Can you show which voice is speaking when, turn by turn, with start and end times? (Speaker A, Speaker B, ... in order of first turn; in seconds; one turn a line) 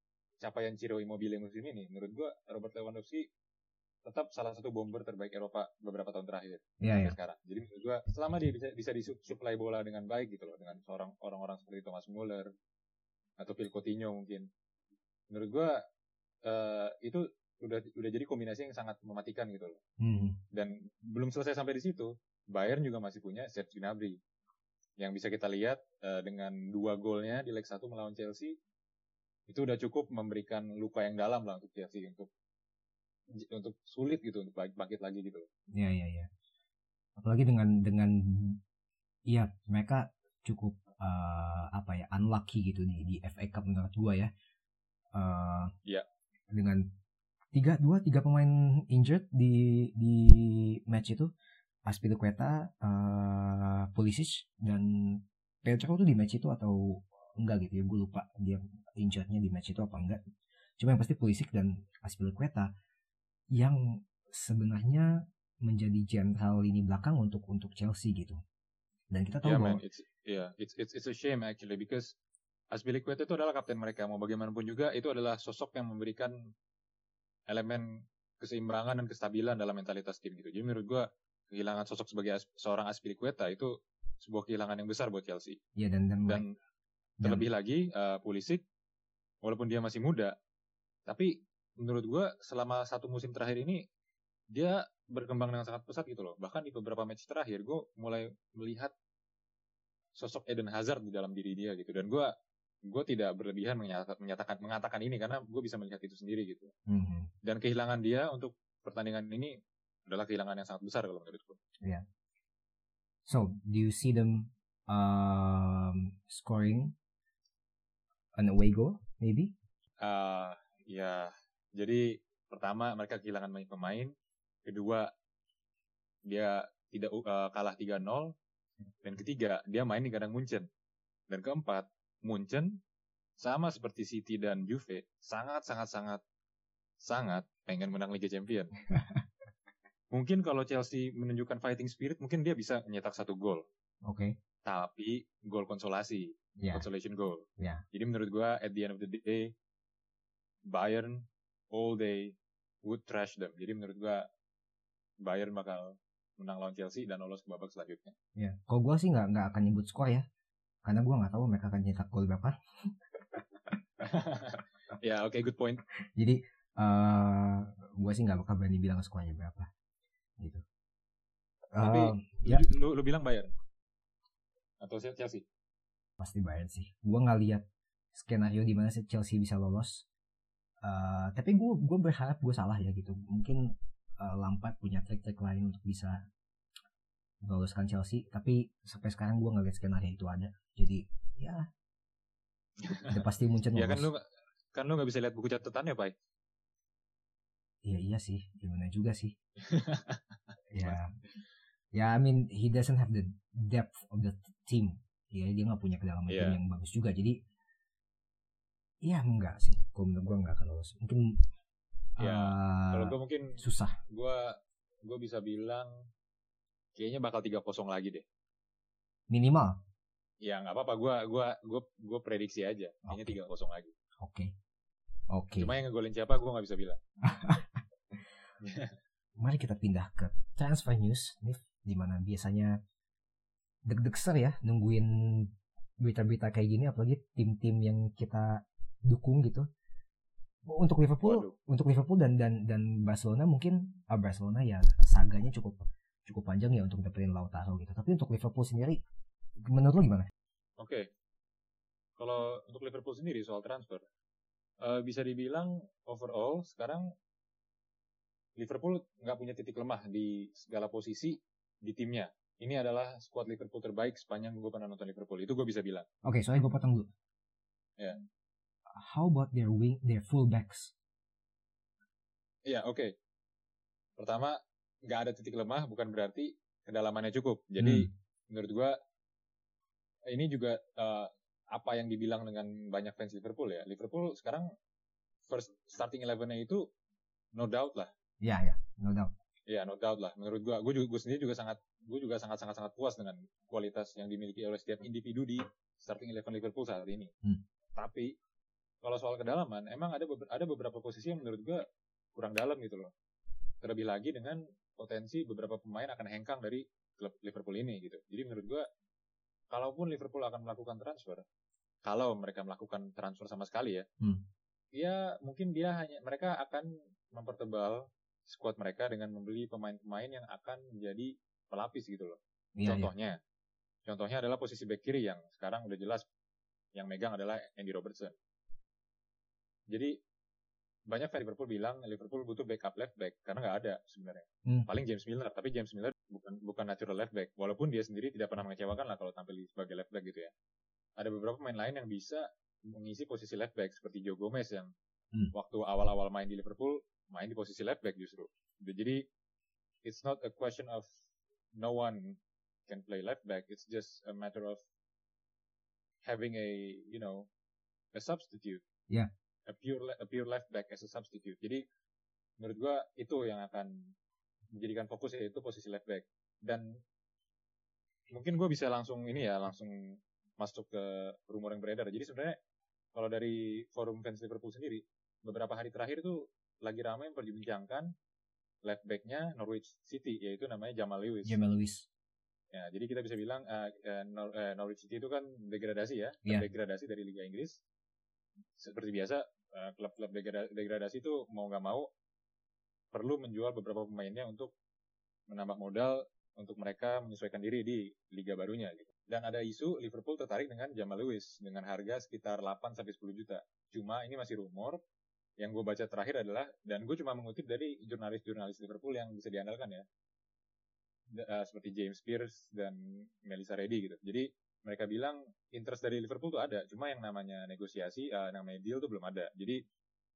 Speaker A: 0.4-3.3
Speaker A: 4.0-12.5
Speaker B: 6.8-7.2
Speaker A: 13.4-14.5
Speaker A: 15.3-15.8
Speaker A: 16.4-19.8
Speaker B: 20.0-20.4
Speaker A: 20.5-24.2
Speaker A: 25.0-28.5
Speaker A: 29.5-32.3
Speaker A: 33.4-35.5
Speaker B: 35.7-36.3
Speaker B: 37.2-38.6
Speaker B: 39.3-44.3
Speaker B: 45.1-45.7
Speaker B: 46.5-46.9
Speaker B: 47.5-51.3
Speaker B: 51.9-60.2
Speaker B: 60.8-62.7
Speaker B: 63.5-68.4
Speaker B: 69.1-69.8
Speaker A: 69.4-72.2
Speaker A: 72.7-76.3
Speaker A: 77.5-77.8
Speaker A: 78.4-83.7
Speaker A: 84.2-85.6
Speaker B: 85.8-86.4
Speaker B: 87.2-87.5
Speaker A: 87.2-88.6
Speaker A: 89.4-90.3
Speaker A: 91.1-93.8
Speaker A: 94.5-98.9
Speaker A: 100.2-102.3
Speaker A: 102.9-106.7
Speaker B: 106.9-107.3
Speaker A: 107.4-109.5
Speaker A: 110.1-111.6
Speaker B: 113.3-116.9
Speaker B: 118.4-119.5
Speaker A: 120.0-124.1
Speaker A: 124.7-125.1
Speaker A: 126.3-128.3
Speaker A: 129.0-130.7
Speaker A: 131.3-132.8
Speaker A: 133.4-136.2
Speaker A: 137.0-138.7
Speaker B: 138.9-139.2
Speaker A: 140.1-143.7
Speaker B: 144.0-144.3
Speaker A: 144.7-149.5
Speaker B: 146.6-146.9
Speaker A: 150.7-154.2
Speaker A: 155.2-158.1
Speaker B: 158.4-160.3
Speaker B: 160.8-163.8
Speaker A: 164.0-165.8
Speaker B: 166.2-169.7
Speaker B: 170.4-170.6
Speaker B: 171.7-172.6
Speaker A: 171.8-173.5
Speaker A: 174.8-175.4
Speaker B: 176.2-177.6
Speaker B: 178.1-180.1
Speaker B: 180.8-186.2
Speaker B: 187.4-191.7
Speaker A: 192.8-193.1
Speaker B: 193.1-194.1
Speaker A: 193.7-194.2
Speaker A: 194.7-196.1
Speaker B: 197.8-199.3
Speaker A: 199.6-200.2
Speaker B: 200.7-201.1
Speaker B: 201.9-207.4
Speaker A: 206.3-206.6
Speaker B: 209.0-211.4
Speaker B: 212.2-214.0
Speaker A: 212.2-215.9
Speaker A: 217.0-218.2
Speaker B: 219.3-219.8
Speaker A: 220.4-223.9
Speaker B: 223.1-223.4
Speaker B: 224.2-224.5
Speaker B: 225.3-225.7
Speaker A: 225.6-227.0
Speaker B: 227.2-227.8
Speaker A: 228.6-228.9
Speaker B: 229.4-232.8
Speaker B: 233.9-239.7
Speaker B: 240.7-249.0
Speaker A: 241.2-241.6
Speaker B: 249.6-250.3
Speaker A: 250.8-251.1
Speaker A: 252.2-254.0
Speaker A: 254.8-257.1
Speaker A: 258.6-266.1
Speaker B: 266.2-267.1
Speaker B: 268.9-270.9
Speaker A: 272.7-273.1
Speaker A: 274.2-274.6
Speaker A: 275.1-278.9
Speaker B: 277.8-278.1
Speaker A: 280.3-284.7
Speaker A: 285.5-286.8
Speaker A: 287.6-288.1
Speaker B: 288.4-289.3
Speaker A: 289.7-297.3
Speaker A: 298.0-298.3
Speaker A: 299.0-301.8
Speaker A: 302.4-303.1
Speaker A: 303.8-308.9
Speaker A: 309.7-311.4
Speaker A: 312.1-314.1
Speaker A: 314.9-323.4
Speaker B: 322.8-323.1
Speaker A: 324.1-326.2
Speaker A: 326.9-328.4
Speaker A: 331.1-340.5
Speaker A: 341.2-344.9
Speaker A: 345.5-349.2
Speaker A: 350.1-351.1
Speaker A: 351.8-352.4
Speaker A: 352.9-354.8
Speaker A: 356.2-357.5
Speaker A: 358.1-358.8
Speaker A: 359.7-361.8
Speaker A: 362.6-363.9
Speaker A: 364.8-366.9
Speaker A: 368.3-372.6
Speaker A: 373.1-378.1
Speaker A: 378.8-381.6
Speaker B: 381.5-382.1
Speaker A: 382.7-387.8
Speaker A: 388.8-392.1
Speaker A: 393.1-394.7
Speaker A: 395.5-405.0
Speaker A: 405.6-410.1
Speaker A: 411.3-419.8